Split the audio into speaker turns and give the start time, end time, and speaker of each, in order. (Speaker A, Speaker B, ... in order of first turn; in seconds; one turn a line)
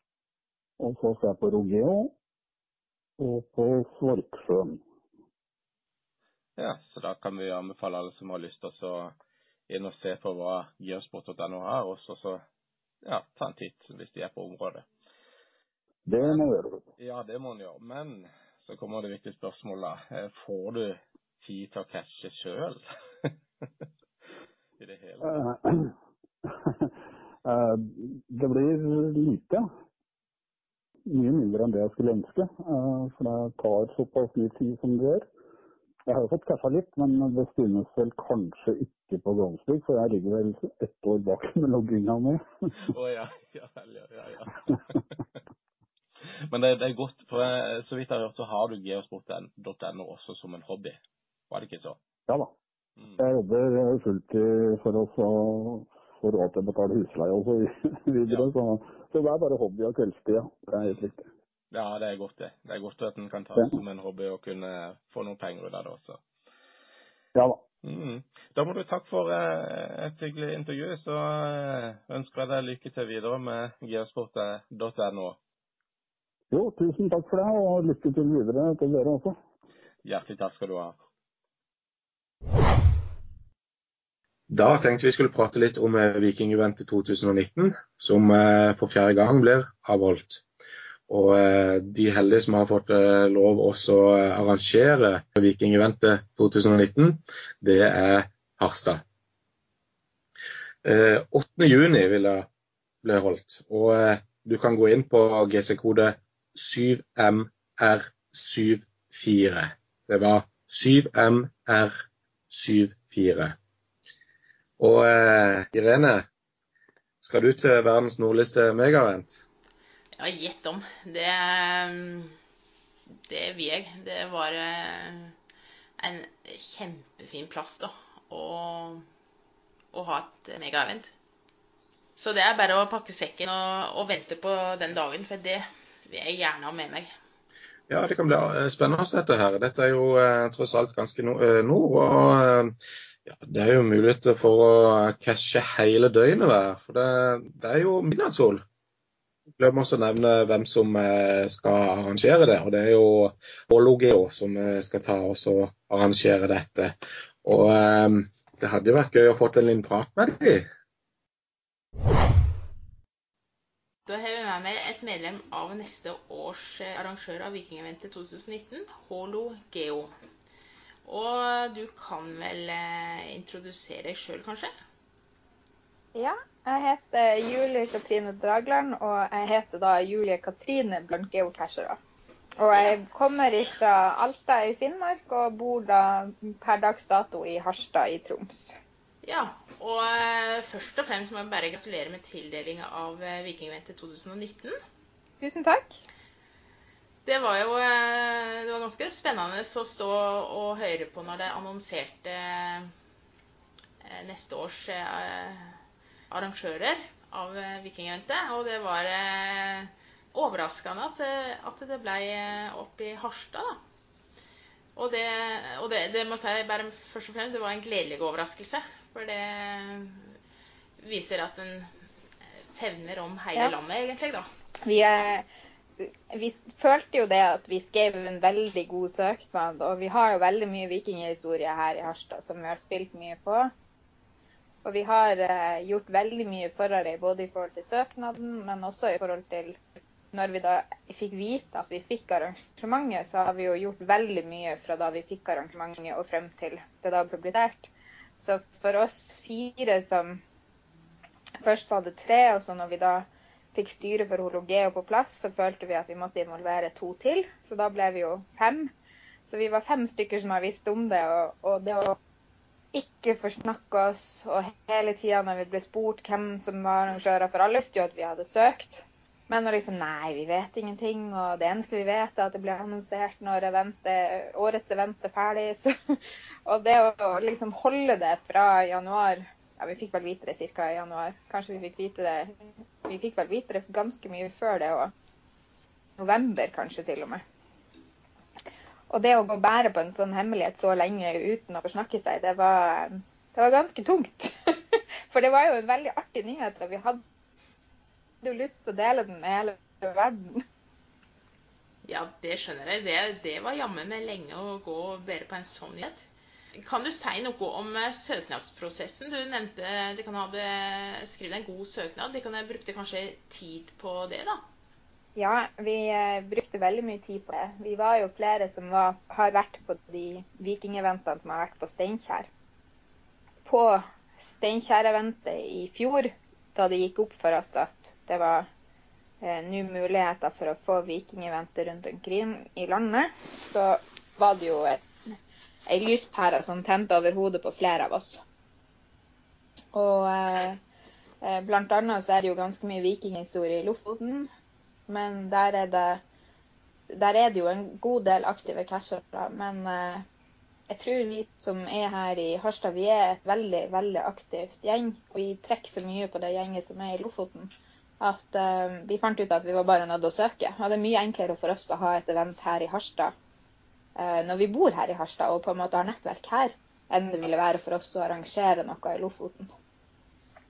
Speaker A: 0.8-2.1
Speaker A: 3.2-4.8
Speaker B: 6.6-9.1
Speaker B: 9.7-12.4
Speaker B: 13.0-14.9
Speaker A: 16.1-16.9
Speaker B: 16.2-16.4
Speaker B: 17.0-23.7
Speaker B: 24.8-25.4
Speaker A: 25.2-25.9
Speaker A: 27.4-29.6
Speaker A: 31.1-35.3
Speaker A: 36.1-42.4
Speaker B: 42.9-44.7
Speaker B: 46.5-52.0
Speaker A: 52.3-52.5
Speaker A: 53.2-61.2
Speaker B: 60.8-61.1
Speaker B: 61.7-66.2
Speaker A: 67.3-67.6
Speaker B: 67.8-75.4
Speaker A: 76.5-79.4
Speaker B: 80.0-81.0
Speaker C: 84.5-90.4
Speaker C: 91.1-99.0
Speaker C: 100.8-102.5
Speaker C: 103.0-111.9
Speaker C: 112.5-113.6
Speaker C: 114.8-116.2
Speaker C: 117.2-119.4
Speaker D: 120.2-122.4
Speaker D: 123.3-125.3
Speaker D: 126.0-129.1
Speaker D: 129.9-131.1
Speaker D: 132.2-137.1
Speaker C: 137.9-142.7
Speaker C: 143.3-148.6
Speaker C: 149.6-156.9
Speaker C: 157.4-160.7
Speaker D: 164.1-170.1
Speaker D: 171.1-174.7
Speaker E: 176.1-182.0
Speaker E: 182.6-188.8
Speaker D: 189.2-194.8
Speaker E: 195.4-196.0
Speaker D: 197.2-202.9
Speaker D: 204.0-205.8
Speaker D: 206.3-213.8
Speaker D: 214.9-220.3
Speaker D: 221.0-221.9
Speaker D: 222.7-224.5
Speaker E: 224.8-225.4
Speaker E: 226.0-233.7
Speaker E: 234.8-239.8
Speaker E: 240.3-250.4
Speaker E: 251.6-258.9
Speaker E: 259.4-262.2
Speaker E: 262.9-285.1
Speaker E: 286.2-287.4
Speaker E: 289.1-297.2
Speaker E: 298.4-300.6
Speaker D: 302.0-306.2
Speaker D: 306.8-314.6
Speaker E: 315.4-322.5
Speaker E: 323.6-328.7
Speaker E: 329.4-335.0
Speaker E: 335.9-338.4
Speaker E: 339.9-340.8
Speaker E: 341.4-344.5
Speaker E: 345.1-346.2
Speaker E: 347.1-350.2
Speaker E: 350.9-363.3
Speaker E: 364.2-369.7